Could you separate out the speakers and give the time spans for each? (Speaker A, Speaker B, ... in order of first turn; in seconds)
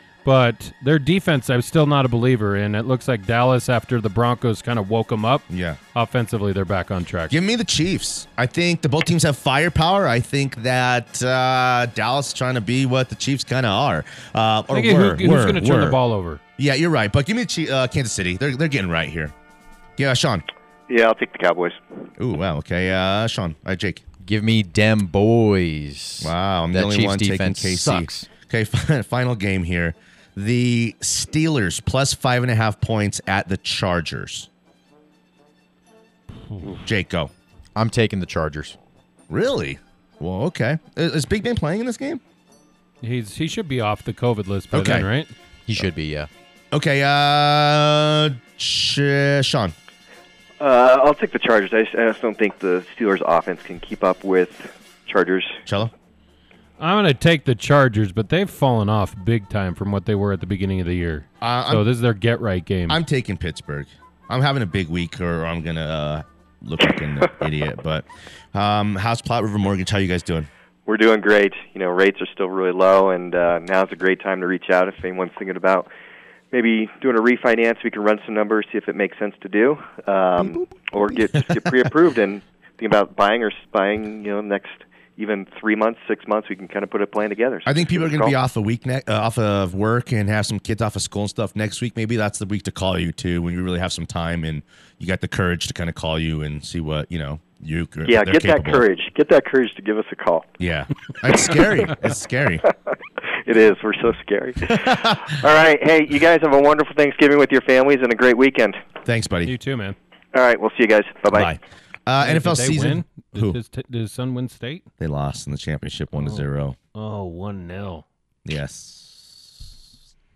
Speaker A: 0.2-7.3, 14.7-16.4, 43.0-45.3, 56.8-63.0, 109.5-110.0, 112.2-114.9, 116.1-118.0
Speaker B: 5.5-5.8, 7.3-16.0, 16.6-19.3, 20.0-20.4, 22.2-24.0, 26.2-34.5, 36.8-37.3, 39.3-42.2, 44.7-45.1, 46.7-49.7, 55.7-55.9, 61.4-61.9, 62.9-70.5, 80.4-81.9, 87.7-98.8, 100.6-102.6, 104.7-105.3, 109.0-109.5, 111.3-113.6, 115.0-116.8, 118.5-119.7
Speaker C: 20.9-21.8, 50.6-55.6, 70.9-75.9, 76.5-88.3, 98.1-100.5, 102.7-108.8, 110.3-111.5
Speaker D: 24.2-28.3, 37.8-38.8, 45.7-46.3